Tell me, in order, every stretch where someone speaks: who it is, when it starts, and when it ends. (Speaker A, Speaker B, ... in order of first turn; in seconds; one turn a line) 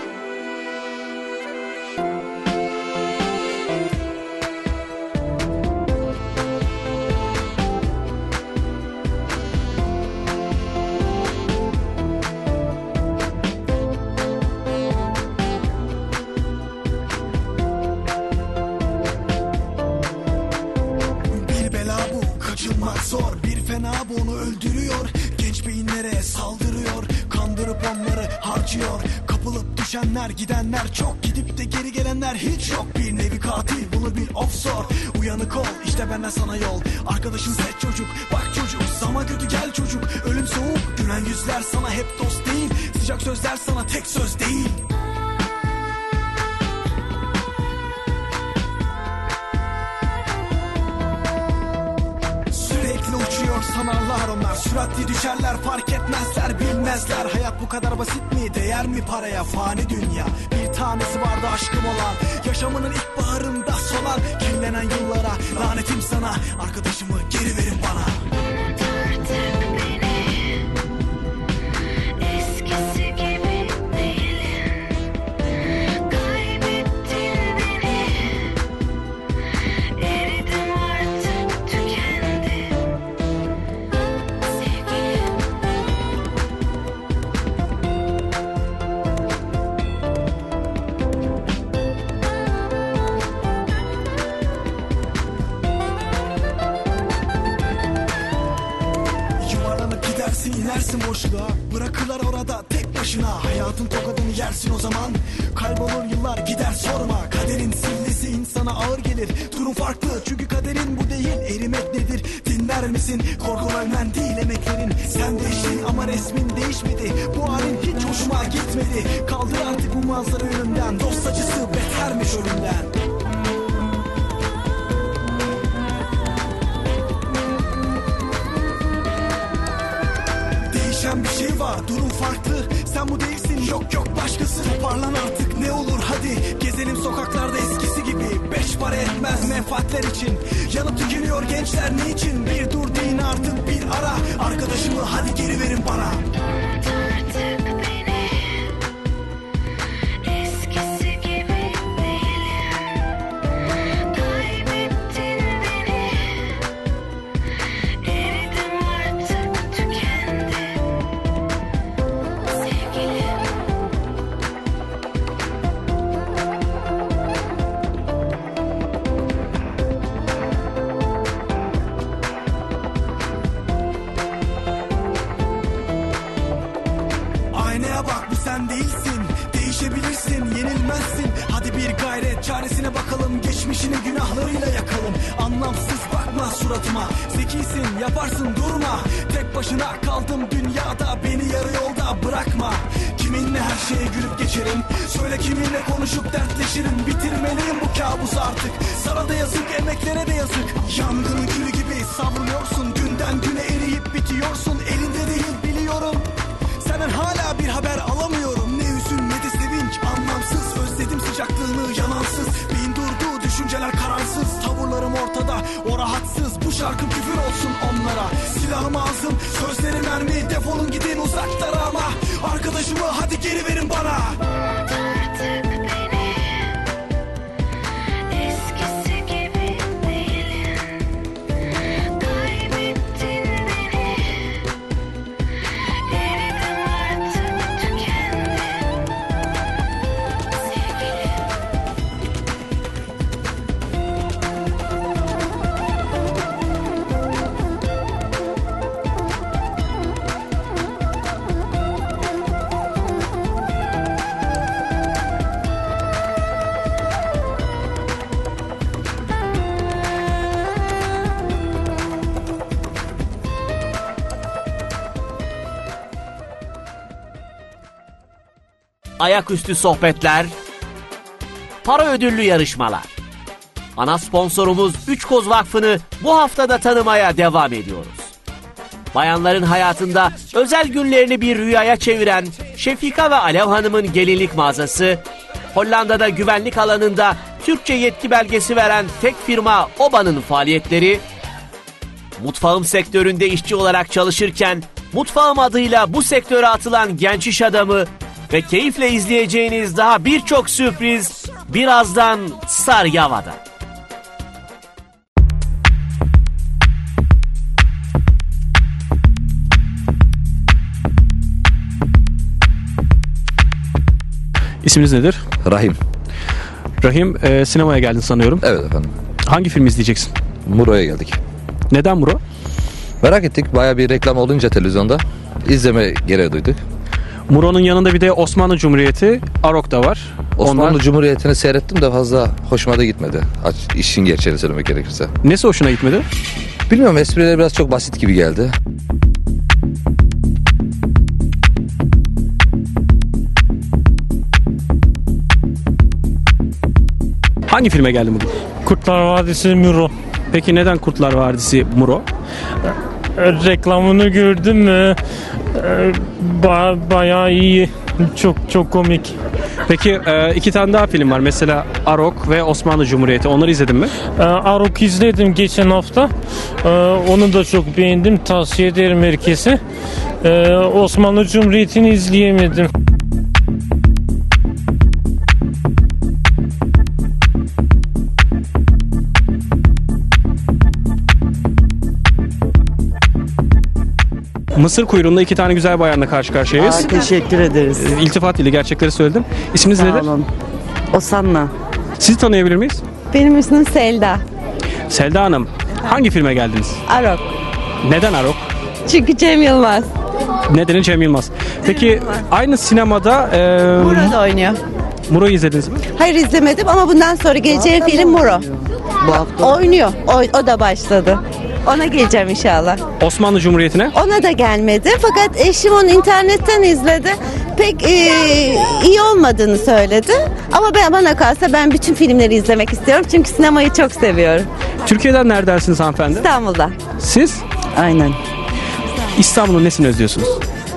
Speaker A: 21.3-44.8
Speaker A: 52.5-68.2
Speaker B: 80.3-80.7
Speaker B: 82.0-82.3
Speaker A: 99.4-122.9
Speaker A: 130.7-146.2
Speaker A: 177.5-224.4
Speaker C: 269.2-270.5
Speaker C: 271.8-273.1
Speaker C: 274.0-278.3
Speaker C: 279.1-291.2
Speaker C: 292.4-303.6
Speaker D: 314.8-315.4
Speaker E: 315.6-316.0
Speaker D: 317.0-318.6
Speaker E: 318.6-319.1
Speaker D: 319.5-320.3
Speaker E: 320.7-321.4
Speaker D: 321.9-322.4
Speaker E: 323.2-326.8
Speaker D: 327.5-331.0
Speaker E: 330.6-335.3
Speaker D: 335.4-336.2
Speaker E: 336.9-338.7
Speaker D: 347.7-348.7
Speaker F: 348.8-350.1
Speaker D: 350.5-352.2
Speaker F: 353.4-355.2
Speaker F: 355.8-359.4
Speaker D: 359.9-364.1
Speaker F: 364.3-366.3
Speaker F: 366.8-369.8
Speaker F: 370.4-372.9
Speaker D: 384.8-387.4
Speaker G: 386.8-388.0
Speaker D: 387.9-390.4
Speaker G: 390.0-390.5
Speaker G: 391.1-391.7
Speaker D: 392.2-393.0
Speaker B: 393.3-394.4
Speaker D: 395.1-397.0
Speaker B: 397.1-397.5
Speaker D: 398.0-398.7
Speaker B: 399.1-400.1
Speaker D: 400.7-404.4
Speaker B: 404.0-404.8
Speaker D: 405.3-406.0
Speaker B: 406.1-408.7
Speaker B: 409.3-413.0
Speaker D: 413.2-414.1
Speaker B: 414.1-424.7
Speaker D: 425.1-426.5
Speaker B: 426.4-427.0
Speaker D: 427.2-427.6
Speaker G: 427.9-428.4
Speaker D: 429.4-430.6